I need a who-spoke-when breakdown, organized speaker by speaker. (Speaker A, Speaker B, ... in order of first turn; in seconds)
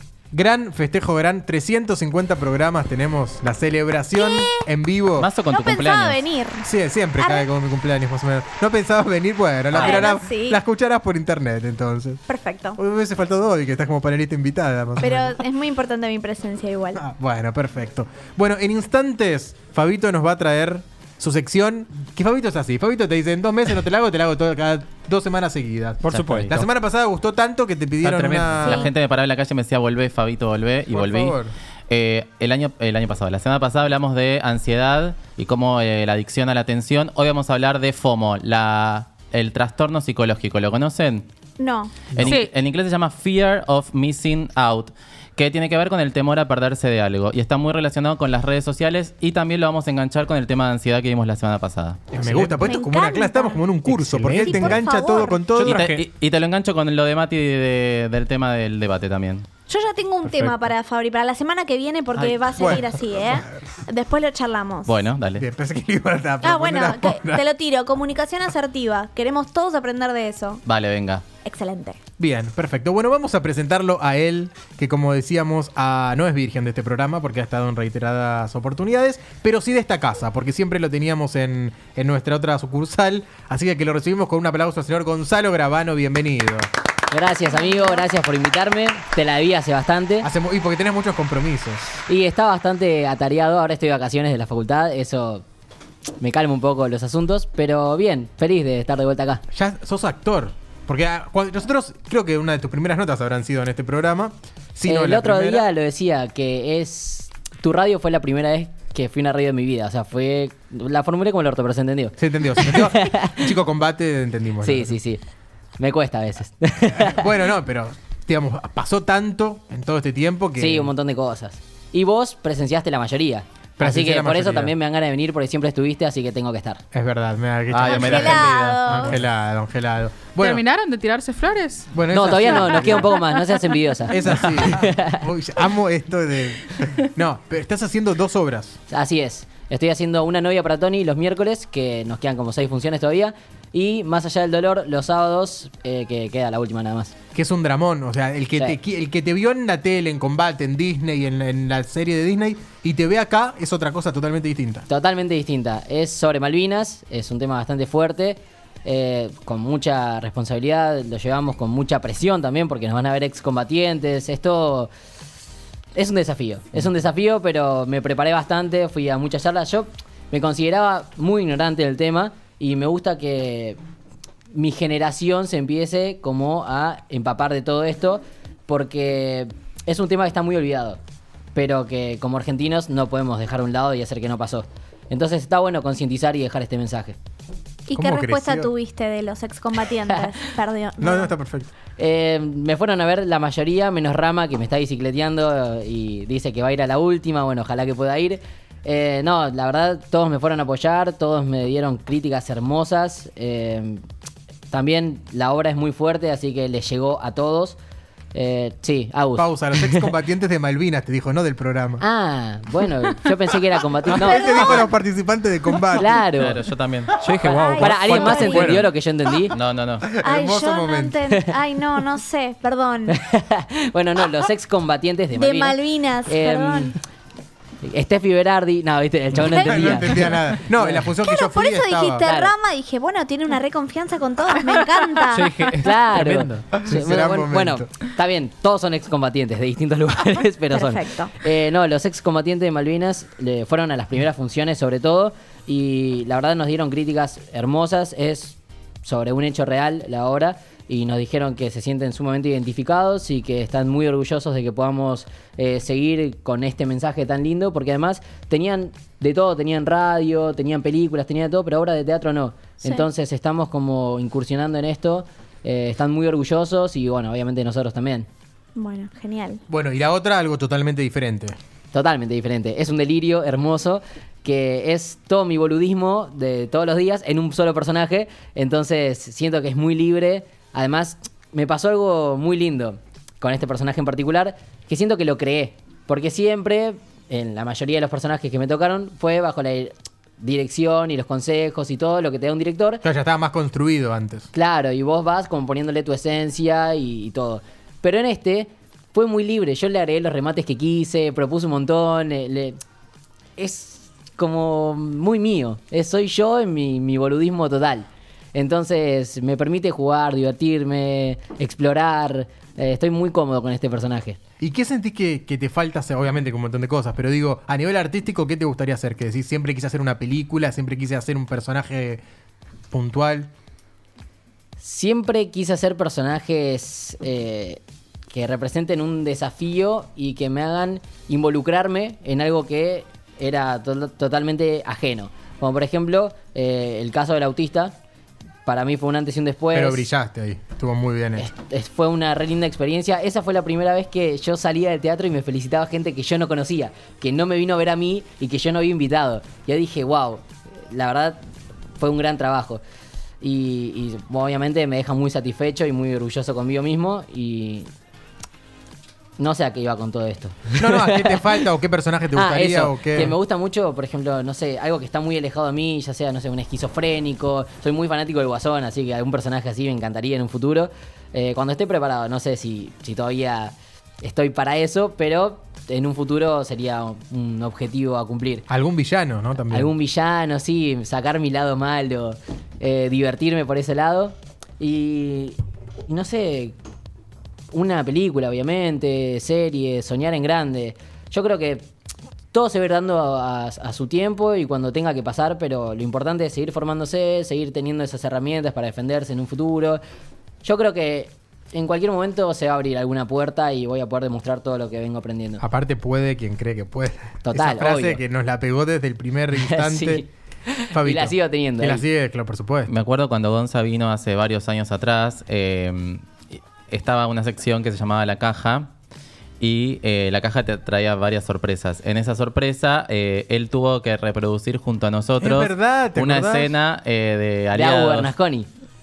Speaker A: 0.3-5.3, 6.6-12.2, 12.8-15.4, 16.9-28.9, 30.9-31.5, 52.1-55.9, 60.2-60.5, 62.2-63.0, 65.3-67.4, 72.2-86.7, 90.2-91.8, 99.5-105.7, 112.2-115.0, 116.9-120.9, 123.8-124.7, 126.9-130.6, 131.9-133.1, 134.1-138.8, 147.3-154.8, 187.9-188.7, 191.0-191.7, 209.3-212.0, 214.1-216.2, 220.0-221.2, 229.5-232.2, 236.1-237.9, 269.7-271.6, 293.0-294.5, 314.6-322.2, 322.9-323.5, 339.7-341.5, 360.7-363.4, 378.7-379.9, 405.6-410.2, 410.9-412.9, 425.4-426.7
Speaker B: 4.2-4.6, 5.5-6.7, 7.2-7.5, 9.8-10.6, 12.3-12.8, 15.0-17.0, 28.6-28.9, 41.6-41.9, 52.6-53.6, 54.4-55.5, 59.7-65.0, 66.4-70.6, 71.4-72.0, 87.5-88.0, 127.9-129.1, 187.8-191.3, 214.1-214.9, 217.4-218.8, 220.2-223.2, 225.3-226.9, 229.4-230.3, 231.2-235.6, 240.7-241.3, 268.8-269.6
Speaker C: 5.2-6.2, 9.7-10.0, 26.1-26.5, 28.6-31.4, 31.9-41.2, 42.1-52.0, 55.6-59.5, 64.8-65.4, 70.7-71.2, 127.7-129.1, 216.3-217.1, 219.5-220.1, 412.9-418.9, 419.6-428.3
Speaker D: 26.0-26.6, 28.0-28.7, 52.2-52.5, 53.9-54.8, 55.6-56.0, 217.2-218.9, 235.3-236.0
Speaker E: 42.2-42.5, 130.4-133.2
Speaker F: 87.1-90.3, 92.1-95.4, 96.2-99.4, 104.8-113.4, 114.6-115.2, 115.8-117.2, 120.6-126.8, 132.1-135.2, 138.9-147.1, 154.9-164.9, 165.9-173.8, 174.5-181.0, 181.5-187.2, 192.0-204.0, 204.7-207.8, 208.3-210.1, 212.0-214.8, 215.9-216.6, 217.8-219.5, 223.1-227.0, 227.8-231.0, 232.2-232.5, 235.8-268.3, 271.9-293.0, 294.5-302.8, 303.6-314.4, 324.8-327.8, 328.3-337.9, 338.6-340.1, 341.4-351.4, 352.0-352.8, 353.4-357.9, 359.4-361.6, 362.3-378.6, 379.7-386.8, 387.7-391.9, 392.5-400.0, 400.6-405.6, 407.4-408.2, 409.6-412.0, 427.7-428.7